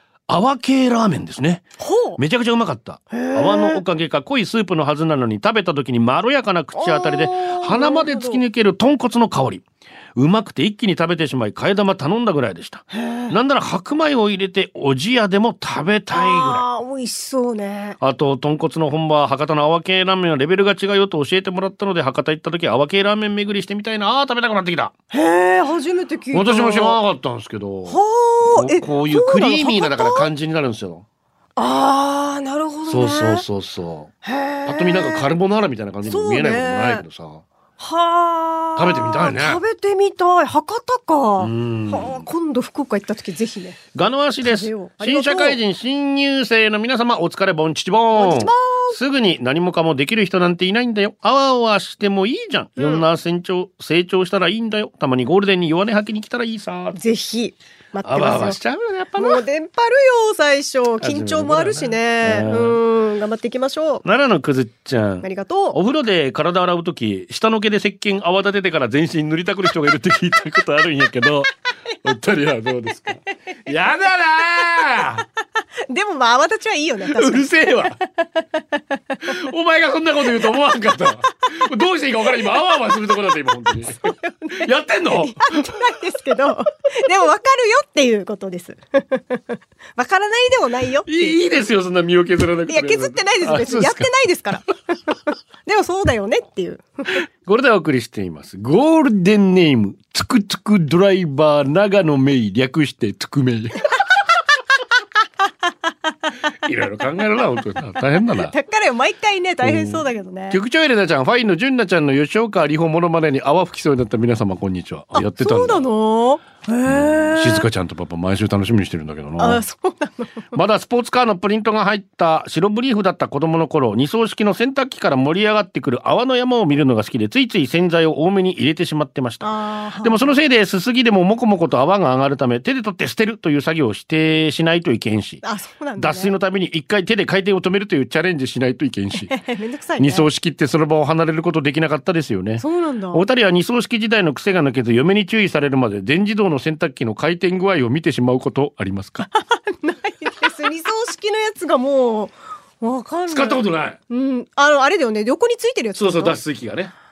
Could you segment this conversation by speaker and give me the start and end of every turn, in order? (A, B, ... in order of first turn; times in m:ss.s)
0:00.3-0:09.6 A
0:01.8-0:02.2 B
0:03.1-0:03.8 B
0:06.8-0:08.4 B
0:10.2-0:16.6 A
0:12.9-0:13.4 B
0:16.1-0:18.0 B
0:18.0-0:24.9 A
0:25.1-0:27.0 B
0:26.3-0:31.0 A
0:27.8-0:30.3 B
0:31.6-0:33.4 B
0:32.9-0:34.1 A
0:34.2-0:35.3 B
0:34.6-0:37.4 A
0:36.1-0:37.0 B
0:37.8-0:43.8 B
0:38.8-0:39.6 A
0:41.4-0:42.2 A
0:43.9-0:57.0 A
0:44.4-0:45.6 B
0:48.2-0:49.0 B
0:52.8-0:53.0 B
0:56.9-0:58.6 B
0:58.0-0:59.4 A
0:59.2-1:04.0 B
1:01.0-1:02.8 A
1:04.0-1:11.5 A
1:05.2-1:05.8 B
1:12.0-1:15.2 A
1:15.9-1:17.5 B
1:17.0-1:18.0 A
1:19.2-1:25.8 A
1:24.0-1:31.4 B
1:31.1-1:34.1 A
1:32.7-1:35.1 B
1:35.6-1:37.2 B
1:37.4-1:43.9 A
1:46.6-1:48.6 A
1:48.3-1:50.6 B
1:49.6-1:55.8 A
1:55.1-1:57.7 B
1:56.8-1:59.6 A
1:59.4-2:00.6 B
2:00.5-2:15.4 A
2:09.4-2:10.3 B
2:15.4-2:16.3 B
2:16.0-2:19.3 A
2:19.2-2:20.3 B
2:20.0-2:29.2 A
2:22.6-2:23.2 B
2:29.3-2:36.4 B
2:33.3-2:34.0 A
2:36.0-2:36.9 A